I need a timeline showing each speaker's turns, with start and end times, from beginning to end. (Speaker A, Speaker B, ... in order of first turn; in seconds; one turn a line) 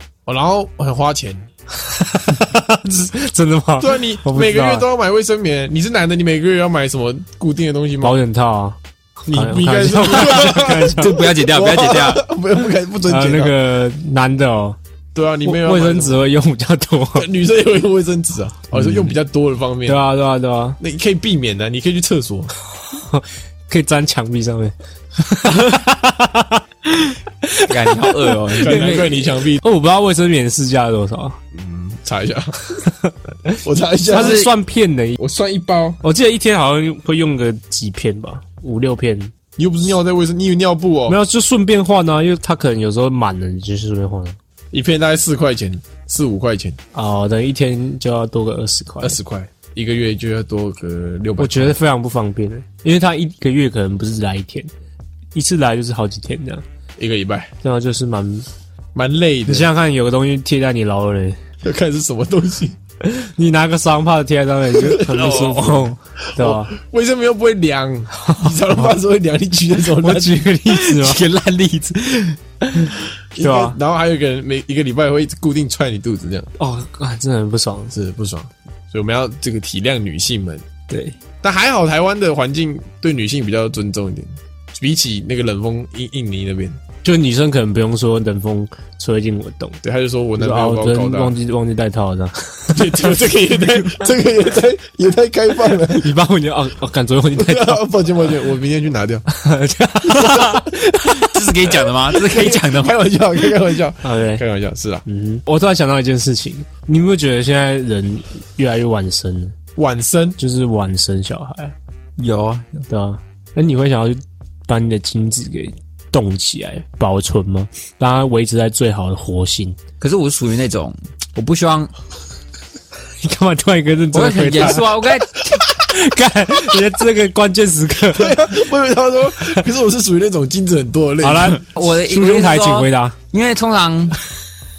Speaker A: 0.2-1.5
Speaker B: 1.8-4.8
Speaker A: 3.8-8.2
Speaker B: 8.0-11.1
Speaker A: 9.3-13.5
Speaker C: 10.1-12.2
Speaker B: 13.1-14.8
Speaker A: 15.1-16.2
Speaker B: 15.4-17.3
Speaker A: 17.1-20.0
Speaker B: 19.9-20.8
Speaker A: 20.8-22.5
Speaker B: 22.9-26.6
Speaker B: 27.4-31.4
Speaker C: 27.7-29.2
Speaker A: 28.6-29.6
Speaker A: 31.5-32.8
Speaker B: 32.9-33.5
Speaker A: 33.6-34.4
Speaker B: 34.1-35.2
Speaker C: 34.1-34.5
Speaker A: 35.2-36.0
Speaker B: 36.0-39.3
Speaker A: 39.6-41.2
Speaker B: 41.1-44.4
Speaker A: 44.7-46.8
Speaker B: 46.9-49.2
Speaker A: 49.0-51.8
Speaker B: 51.4-54.7
Speaker B: 55.3-56.6
Speaker A: 57.0-57.5
Speaker B: 57.6-58.5
Speaker A: 58.9-59.7
Speaker B: 59.5-61.4
Speaker A: 61.6-62.8
Speaker B: 63.0-66.7
Speaker A: 64.8-65.4
Speaker C: 65.1-65.9
Speaker A: 66.4-70.4
Speaker B: 68.2-68.9
Speaker B: 70.0-71.2
Speaker C: 70.7-72.9
Speaker B: 72.7-73.8
Speaker A: 73.3-76.5
Speaker B: 76.6-77.9
Speaker A: 77.9-80.6
Speaker A: 81.4-86.8
Speaker B: 87.0-89.8
Speaker A: 89.8-91.3
Speaker B: 90.4-93.2
Speaker A: 92.7-96.1
Speaker B: 95.9-97.8
Speaker A: 97.3-99.2
Speaker B: 99.3-101.5
Speaker C: 100.1-100.5
Speaker C: 101.1-103.0
Speaker A: 102.1-105.0
Speaker B: 104.0-104.4
Speaker B: 105.0-109.5
Speaker A: 109.8-110.4
Speaker B: 110.4-111.7
Speaker C: 112.2-112.8
Speaker B: 112.9-119.8
Speaker C: 120.0-121.9
Speaker B: 123.2-125.0
Speaker C: 124.1-125.6
Speaker B: 125.6-128.5
Speaker A: 128.1-131.7
Speaker B: 131.2-133.1
Speaker C: 131.7-134.2